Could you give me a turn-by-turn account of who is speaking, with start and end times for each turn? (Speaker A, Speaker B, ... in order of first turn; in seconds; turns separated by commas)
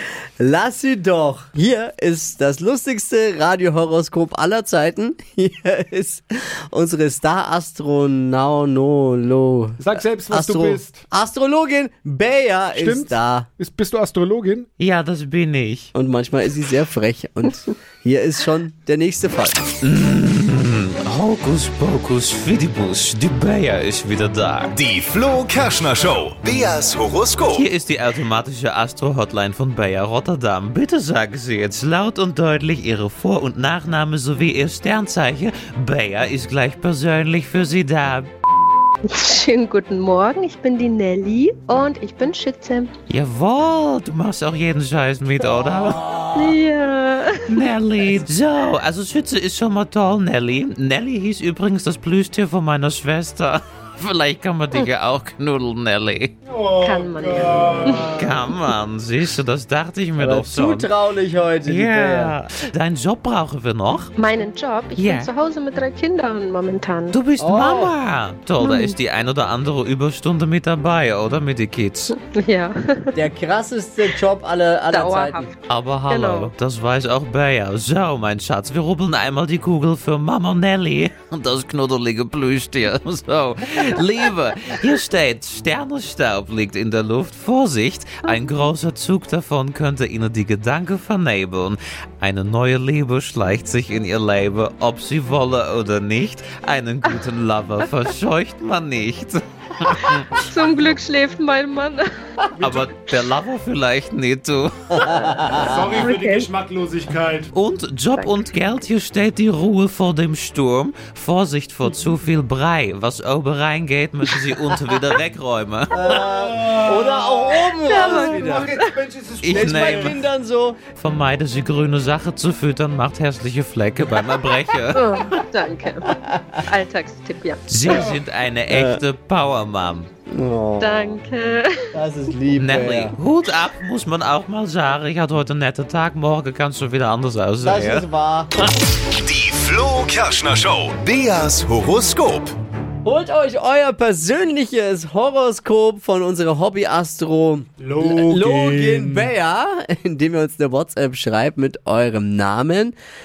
Speaker A: 0.4-13.5, Speaker B: 9.8-11.1, Speaker B: 12.8-14.7, Speaker C: 14.8-15.9, Speaker A: 15.9-19.6, Speaker C: 19.8-24.8, Speaker D: 24.8-27.7, Speaker C: 27.5-38.3, Speaker E: 39.1-42.9, Speaker C: 43.1-46.1, Speaker E: 46.4-47.6, Speaker C: 47.5-56.4, Speaker B: 56.5-58.2, Speaker E: 56.8-58.2, Speaker C: 58.1-60.9, Speaker A: 60.2-62.4, Speaker C: 61.7-64.1, Speaker E: 64.2-67.2, Speaker C: 65.0-65.3, Speaker C: 67.1-72.2, Speaker A: 67.4-68.0, Speaker E: 68.6-69.0, Speaker E: 72.2-73.2, Speaker A: 73.1-75.5, Speaker E: 74.9-76.5, Speaker C: 75.7-100.3, Speaker E: 100.0-102.0, Speaker B: 102.6-102.9, Speaker C: 102.6-105.0, Speaker A: 105.0-106.0, Speaker E: 105.0-106.5, Speaker B: 105.5-107.5, Speaker C: 107.5-115.9, Speaker A: 115.9-118.8, Speaker B: 116.0-120.2, Speaker E: 117.9-118.9, Speaker C: 119.4-120.2, Speaker A: 119.5-120.8, Speaker C: 121.0-125.2, Speaker E: 124.9-127.8, Speaker A: 126.2-126.6, Speaker C: 127.7-130.1, Speaker B: 127.9-128.2, Speaker A: 128.7-129.0, Speaker A: 130.3-131.0, Speaker E: 130.8-131.8, Speaker A: 131.9-133.2, Speaker C: 132.6-138.1, Speaker A: 137.6-138.6, Speaker D: 139.0-142.6, Speaker A: 143.0-152.9, Speaker B: 147.8-149.3